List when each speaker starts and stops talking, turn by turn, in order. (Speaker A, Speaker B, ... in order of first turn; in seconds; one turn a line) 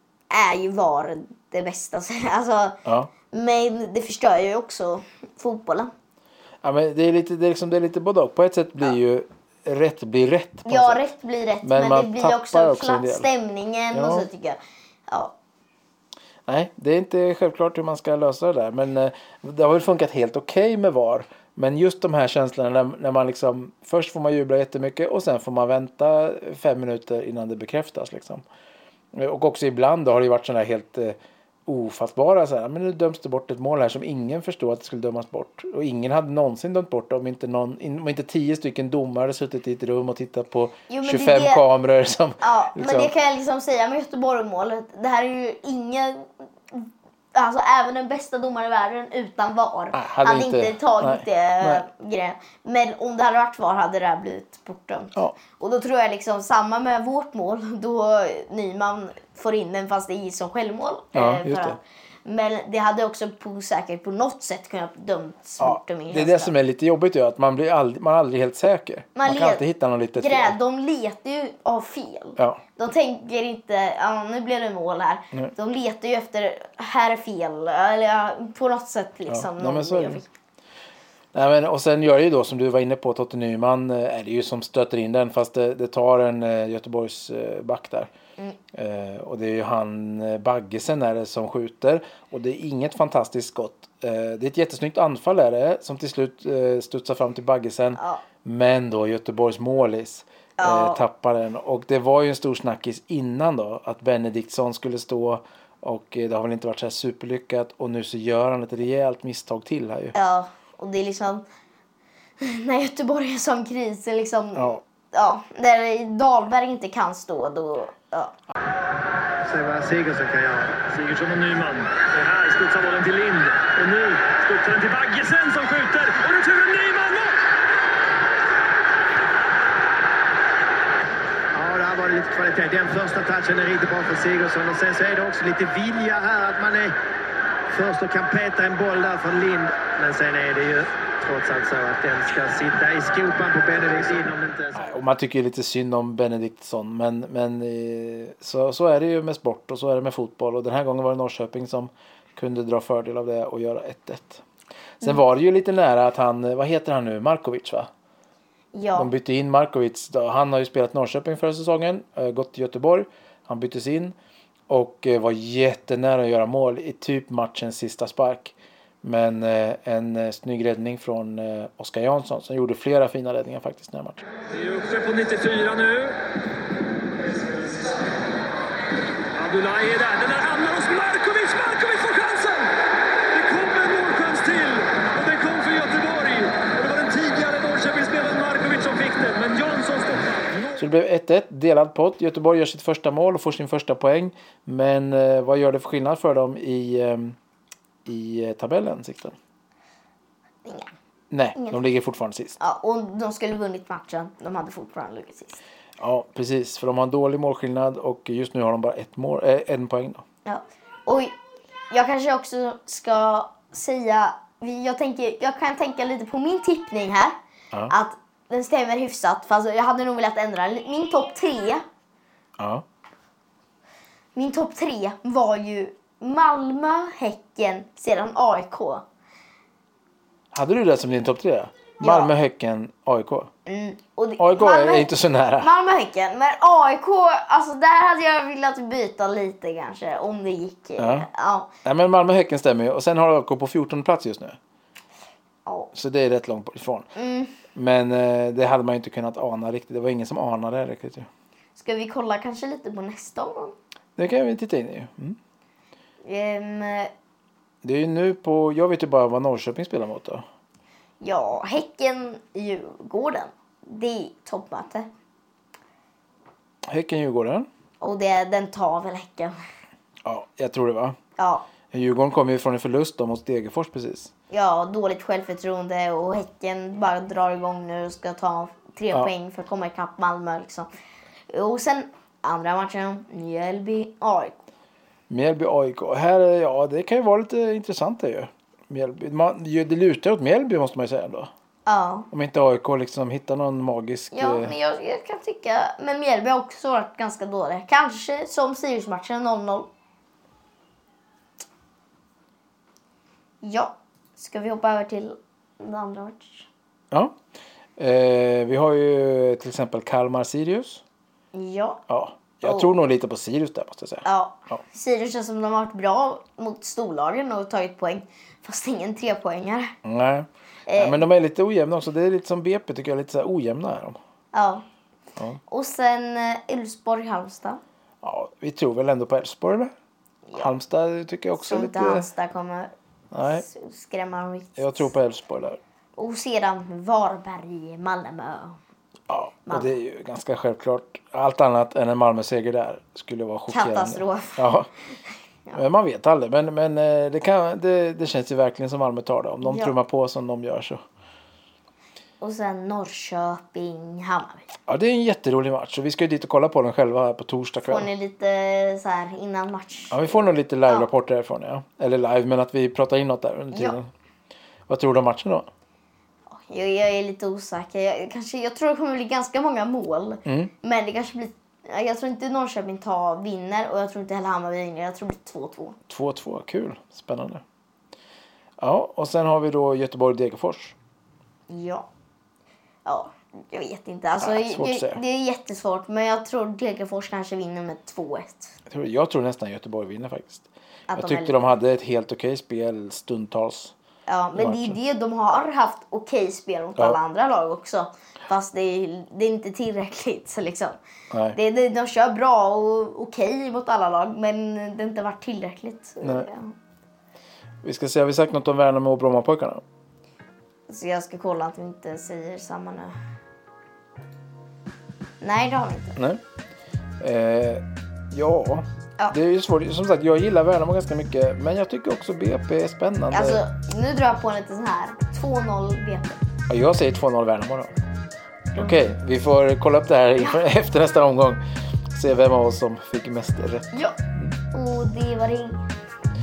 Speaker A: 0.3-2.8
Speaker B: 2.9-3.1
Speaker A: 3.3-5.9
Speaker B: 6.6-11.0
Speaker A: 10.7-15.3
Speaker B: 11.6-13.3
Speaker B: 13.9-14.3
Speaker B: 16.5-28.4
Speaker B: 29.1-43.1
Speaker A: 40.9-41.6
Speaker A: 42.4-66.5
Speaker B: 49.9-51.9
Speaker B: 61.1-61.8
Speaker B: 65.6-70.5
Speaker A: 69.2-69.7
Speaker A: 70.2-80.3
Speaker B: 79.3-80.2
Speaker B: 81.3-88.1
Speaker B: 88.7-110.2
Speaker A: 98.0-98.2
Speaker A: 100.6-101.0
Speaker A: 110.2-111.5
Speaker A: 112.4-118.3
Speaker C: 119.5-120.8
Speaker D: 120.9-127.4
Speaker C: 131.5-136.9
Speaker C: 137.7-144.9
Speaker B: 144.8-154.4
Speaker B: 155.0-157.9
Speaker A: 158.7-159.1
Speaker B: 158.9-164.2
Speaker B: 164.7-174.2
Speaker D: 174.5-176.2
Speaker D: 179.3-182.7
Speaker D: 183.3-190.7
Speaker B: 190.8-197.4
Speaker B: 198.1-199.4
Speaker A: 200.7-200.9
Speaker B: 201.3-202.6
Speaker A: 202.6-205.6
Speaker B: 206.0-210.2
Speaker A: 210.5-211.3
Speaker A: 211.9-217.4
Speaker A: 217.9-221.8
Speaker B: 222.6-222.8
Speaker A: 224.3-229.1
Speaker B: 230.5-233.5
Speaker A: 232.0-232.3
Speaker A: 233.7-241.7
Speaker B: 234.4-235.7
Speaker B: 241.0-241.3
Speaker B: 241.8-244.6
Speaker B: 245.9-247.1
Speaker A: 247.2-247.6
Speaker B: 247.8-251.3
Speaker A: 251.8-253.8
Speaker B: 254.2-255.4
Speaker A: 256.2-257.1
Speaker B: 257.8-260.4
Speaker A: 261.2-265.1
Speaker B: 266.9-267.7
Speaker A: 268.0-269.6
Speaker B: 270.2-271.2
Speaker A: 271.4-271.7
Speaker B: 271.9-274.3
Speaker A: 274.5-280.9
Speaker A: 281.5-284.6
Speaker B: 285.3-291.5
Speaker A: 291.9-292.3
Speaker B: 292.3-294.7
Speaker A: 294.3-299.9
Speaker A: 303.6-306.7
Speaker B: 308.0-311.0
Speaker A: 311.5-312.0
Speaker B: 312.1-314.8
Speaker A: 312.6-312.9
Speaker A: 314.2-319.9
Speaker B: 320.0-324.2
Speaker A: 320.9-321.2
Speaker A: 324.5-324.9
Speaker A: 325.7-327.8
Speaker B: 328.2-329.9
Speaker A: 330.5-330.7
Speaker B: 330.6-332.3
Speaker A: 331.6-332.9
Speaker B: 333.3-333.6
Speaker A: 333.4-335.0
Speaker B: 334.8-335.8
Speaker A: 336.2-338.8
Speaker B: 339.3-344.9
Speaker A: 343.7-344.7
Speaker B: 345.7-351.0
Speaker A: 349.6-349.9
Speaker A: 352.4-354.7
Speaker B: 354.9-358.1
Speaker A: 357.8-361.1
Speaker B: 360.1-364.1
Speaker B: 364.9-365.7
Speaker A: 366.5-376.0
Speaker B: 370.5-370.7
Speaker B: 376.1-377.6
Speaker B: 378.8-381.0
Speaker A: 381.7-382.1
Speaker A: 383.1-388.8
Speaker B: 384.4-385.2
Speaker B: 388.9-393.9
Speaker A: 391.1-391.5
Speaker A: 394.3-401.0
Speaker B: 394.6-395.0
Speaker B: 401.3-401.6
Speaker A: 401.5-406.7
Speaker B: 406.2-406.5
Speaker B: 407.8-409.8
Speaker A: 410.9-413.1
Speaker A: 415.4-416.2
Speaker B: 416.2-416.4
Speaker B: 417.2-423.6
Speaker A: 423.3-426.4
Speaker B: 426.7-427.9
Speaker B: 428.7-434.6
Speaker A: 434.7-435.8